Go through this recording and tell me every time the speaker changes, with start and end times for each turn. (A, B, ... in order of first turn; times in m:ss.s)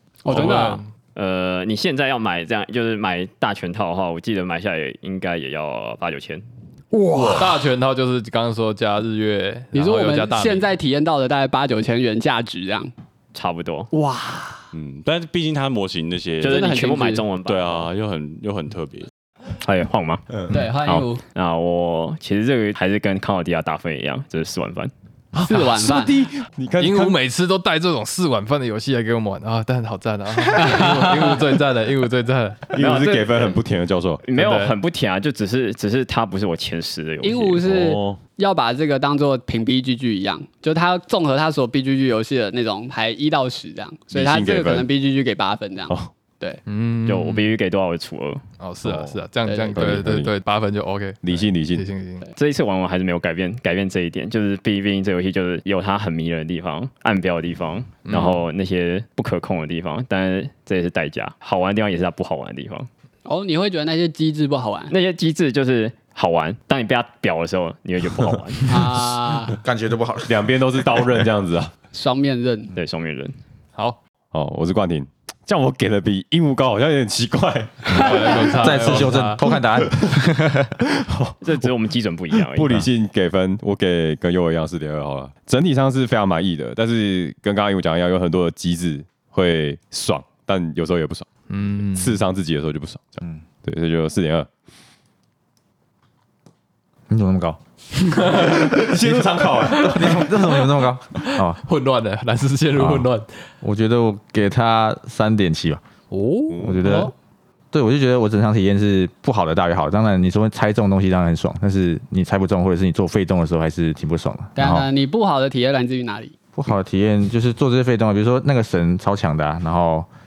0:00.2-0:00.8 A
0:00.3-0:00.9 B
0:01.1-0:06.4 C
0:06.9-0:07.6 A
0:07.1-0:07.5 D
0:07.3-0:10.7 B
0:09.7-0:12.9 A
0:13.3-0:13.9 C
0:13.9-0:14.6 A
0:14.7-0:16.7 D
0:16.4-0:17.9 C
0:16.4-0:17.2 A
0:17.4-0:19.1 D
0:19.6-0:24.9 C
0:20.5-0:21.2 A
0:25.3-0:27.2 E
0:25.4-0:26.1 A
0:26.8-0:32.8 B
0:30.6-0:31.4 A
0:32.7-0:34.2 E
0:32.8-0:33.6 C
0:34.2-0:37.7 C
0:34.4-0:34.7 B
0:37.2-0:46.6 A
0:37.6-0:38.2 E
0:44.1-0:44.9 E
0:46.6-0:47.5 B
0:47.0-0:48.4 C
0:48.6-0:52.2 B
0:48.8-0:49.1 E
0:49.4-0:50.0 A
0:49.8-0:50.3 E
0:51.2-0:51.8 E
0:52.4-1:02.9 C
0:58.0-0:58.4 B
1:03.2-1:04.9 A
1:04.9-1:08.7 C
1:08.7-1:09.6 A
1:08.8-1:10.4 F
1:10.3-1:11.7 E
1:11.9-1:12.7 A
1:12.7-1:13.4 C
1:14.3-1:19.0 E
1:17.9-1:19.4 B
1:17.9-1:18.2 A
1:18.6-1:20.8 F
1:19.8-1:20.1 E
1:20.9-1:21.4 E
1:21.4-1:22.8 C
1:22.4-1:31.3 E
1:31.5-1:32.2 B
1:31.9-1:34.5 E
1:37.1-1:37.6 F
1:38.1-1:38.4 B
1:38.2-1:41.6 F
1:38.4-1:40.2 E
1:39.8-1:43.3 B
1:42.8-1:43.1 F
1:43.6-1:45.8 F
1:46.1-1:46.7 B
1:46.5-1:46.8 E
1:46.6-1:47.1 F
1:46.8-1:47.1 A
1:47.7-1:54.9 F
1:54.6-1:56.3 A
1:56.5-2:00.1 F